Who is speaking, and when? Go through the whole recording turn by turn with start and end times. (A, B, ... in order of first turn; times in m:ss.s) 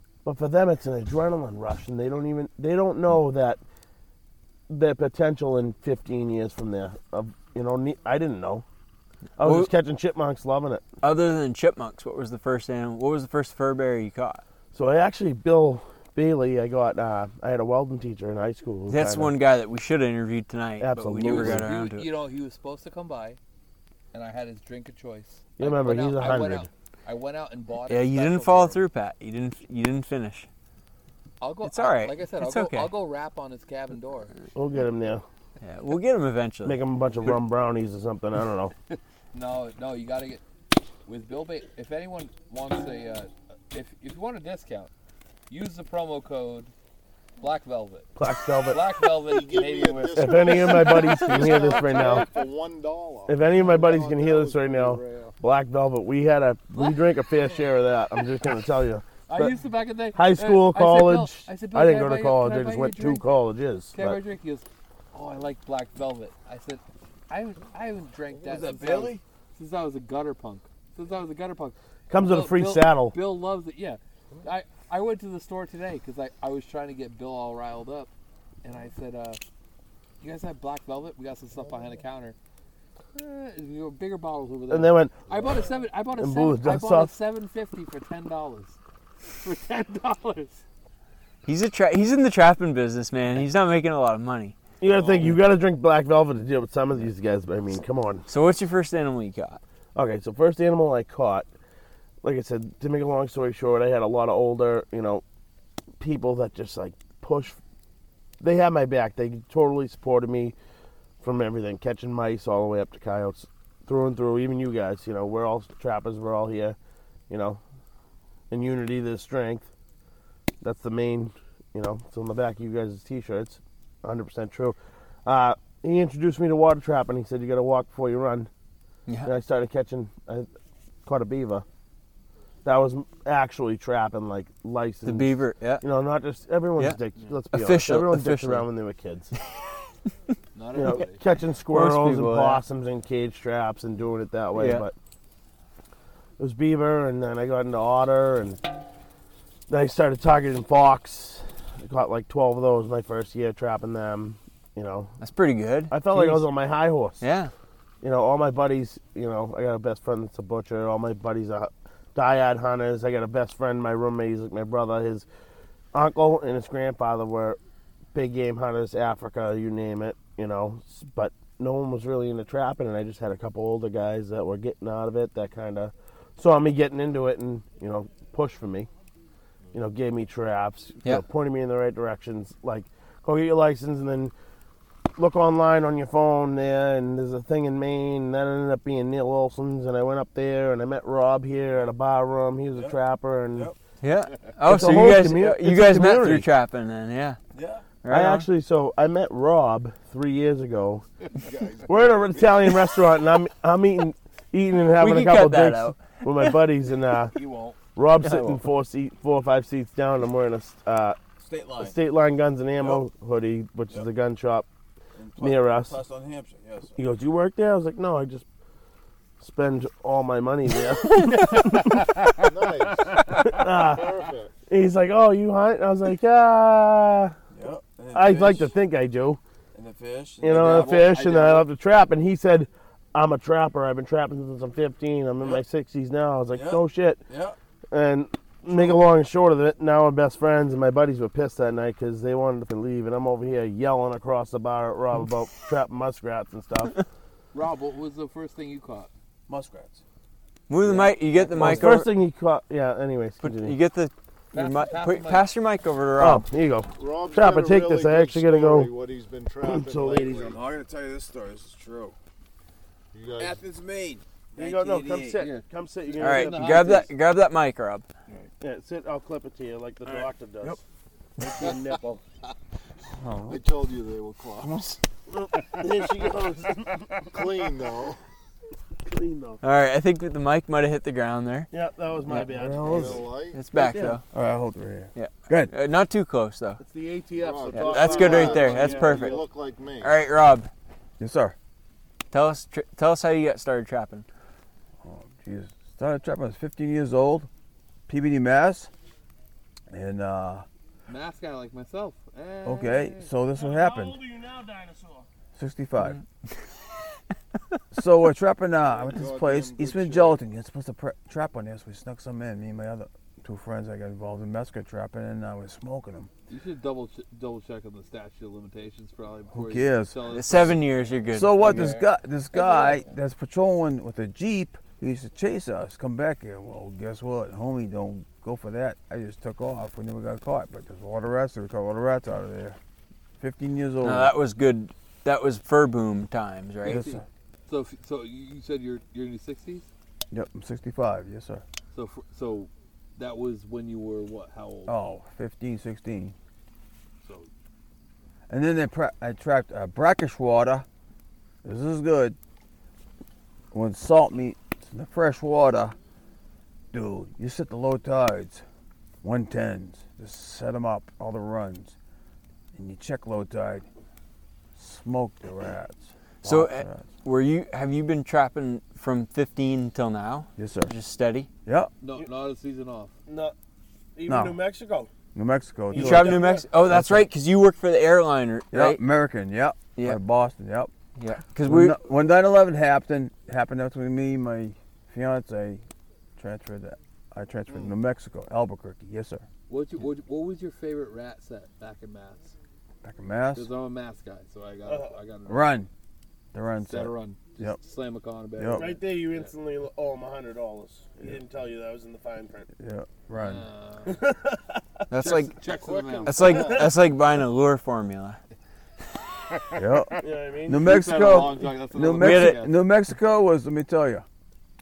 0:00.2-0:03.6 A
0:04.7-0:08.6 A
0:09.4-0:10.8 A
0:09.4-0:09.7 B
0:11.0-0:14.4 B
0:14.7-0:19.3 A
0:18.9-0:22.1 B
0:20.8-0:21.7 A
0:21.2-0:23.4 C
0:24.1-0:28.8 C
0:25.6-0:26.7 A
0:27.9-0:30.5 B
0:31.4-0:34.3 C
0:31.6-0:32.9 B
0:34.5-0:35.2 A
0:35.6-0:36.8 B
0:36.6-0:38.7 A
0:38.9-0:40.4 C
0:41.0-0:44.9 C
0:45.5-0:46.7 C
0:47.4-0:48.1 C
0:48.2-0:49.0 A
0:48.6-0:51.1 C
0:49.2-0:55.4 D
0:50.1-0:52.3 A
0:53.3-0:59.6 A
0:56.7-0:57.0 C
0:59.3-1:03.2 C
1:00.1-1:04.2 A
1:03.9-1:18.1 C
1:12.1-1:13.2 A
1:18.6-1:19.4 C
1:20.2-1:22.4 C
1:23.1-1:30.6 C
1:24.7-1:25.2 A
1:26.1-1:27.1 A
1:31.4-1:34.6 B
1:34.8-1:38.2 A
1:34.9-1:35.2 C
1:38.3-1:39.6 B
1:39.9-1:41.5 A
1:42.2-1:45.2 A
1:46.0-1:47.6 A
1:48.4-1:50.5 A
1:51.2-1:56.8 A
1:57.3-1:57.6 A
1:58.5-1:59.7 A
2:00.6-2:08.5 A
2:09.2-2:10.5 A
2:11.0-2:11.6 A
2:12.6-2:19.3 A
2:15.0-2:15.8 B
2:17.5-2:18.6 B
2:20.5-2:21.2 C
2:20.8-2:24.9 A
2:21.7-2:22.6 B
2:24.6-2:24.8 B
2:26.4-2:28.6 A
2:29.7-2:35.1 A
2:35.2-2:36.4 B
2:35.9-2:37.2 A
2:37.2-2:37.5 B
2:38.0-2:45.2 A
2:45.9-2:47.6 A
2:48.1-2:58.9 A
2:59.7-3:04.3 A
3:05.2-3:13.7 A
3:14.0-3:17.4 B
3:14.6-3:16.5 A
3:18.0-3:18.4 B
3:18.1-3:21.0 A
3:21.4-3:22.7 D
3:21.8-3:27.4 A
3:25.0-3:26.4 B
3:27.3-3:27.8 C
3:28.0-3:31.2 A
3:28.2-3:28.6 B
3:31.8-3:34.7 A
3:35.4-3:36.0 A
3:37.0-3:38.4 A
3:39.4-3:41.6 A
3:42.4-3:44.5 D
3:43.4-3:47.4 A
3:48.1-3:49.4 A
3:50.4-3:57.2 A
3:50.4-3:51.7 C
3:57.9-4:07.0 A
4:07.5-4:09.1 C
4:09.5-4:09.8 E
4:10.7-4:12.1 B
4:10.9-4:11.7 C
4:11.5-4:13.8 A
4:13.4-4:16.4 B
4:14.5-4:15.5 C
4:16.2-4:18.9 A
4:17.0-4:20.6 D
4:19.6-4:20.5 A
4:23.1-4:23.6 D
4:24.6-4:27.1 A
4:25.3-4:27.1 C
4:26.2-4:28.1 B
4:28.6-4:30.8 A
4:31.4-4:32.2 A
4:33.2-4:33.6 E
4:33.5-4:34.8 D
4:34.6-4:35.0 E
4:35.3-4:37.0 A
4:37.2-4:38.2 D
4:39.0-4:39.6 A
4:39.6-4:41.7 B
4:41.7-4:44.2 A
4:42.4-4:43.2 E
4:42.8-4:43.6 D
4:43.5-4:44.2 B
4:44.3-4:45.7 E
4:45.1-4:46.8 B
4:46.8-4:49.4 A
4:47.0-4:49.0 C
4:47.4-4:50.2 D
4:47.8-4:49.4 B
4:50.0-4:50.7 B
4:51.2-4:51.5 E
4:52.3-4:54.3 B
4:55.0-4:57.5 E
4:58.1-4:58.9 E
4:59.9-5:00.6 E
5:01.1-5:03.3 C
5:02.6-5:04.2 E
5:03.6-5:05.3 A
5:05.5-5:06.2 E
5:07.9-5:16.3 E
5:08.8-5:10.4 D
5:16.5-5:23.1 C
5:19.5-5:20.6 E
5:20.3-5:21.9 B
5:21.3-5:32.8 E
5:33.4-5:34.4 E
5:34.0-5:37.0 B
5:36.8-5:37.2 E
5:36.8-5:39.9 C
5:40.3-5:41.6 E
5:41.9-5:45.0 C
5:44.9-5:46.3 E
5:47.2-5:47.5 C
5:48.5-5:50.8 E
5:51.6-5:52.4 E
5:53.7-5:56.0 E
5:56.9-5:58.6 E
5:59.2-6:02.0 E
6:02.7-6:03.8 E
6:04.8-6:07.0 E
6:06.4-6:11.5 B
6:10.6-6:10.9 E
6:11.6-6:11.9 E
6:12.0-6:13.1 C
6:13.2-6:13.5 A
6:14.2-6:15.1 A
6:14.3-6:14.6 E
6:15.3-6:17.2 E
6:15.9-6:16.6 A
6:15.9-6:19.0 B
6:18.7-6:20.9 E
6:21.2-6:22.0 B
6:21.6-6:25.8 E
6:26.4-6:29.4 E
6:27.7-6:28.0 D
6:29.7-6:32.6 C
6:33.0-6:33.7 E
6:33.5-6:35.7 C
6:34.8-6:35.2 A
6:35.4-6:35.9 E
6:36.5-6:37.8 E
6:36.9-6:39.5 C
6:38.6-6:38.9 E
6:38.7-6:42.7 A
6:42.8-6:43.6 E
6:43.3-6:44.2 C
6:44.0-6:44.8 A
6:45.1-6:45.5 B
6:45.2-6:46.8 C
6:45.6-6:46.8 D
6:46.2-6:48.4 B
6:46.4-6:47.0 A
6:49.8-6:54.2 E
6:50.2-6:51.0 A
6:50.7-6:52.8 C
6:52.0-6:52.7 B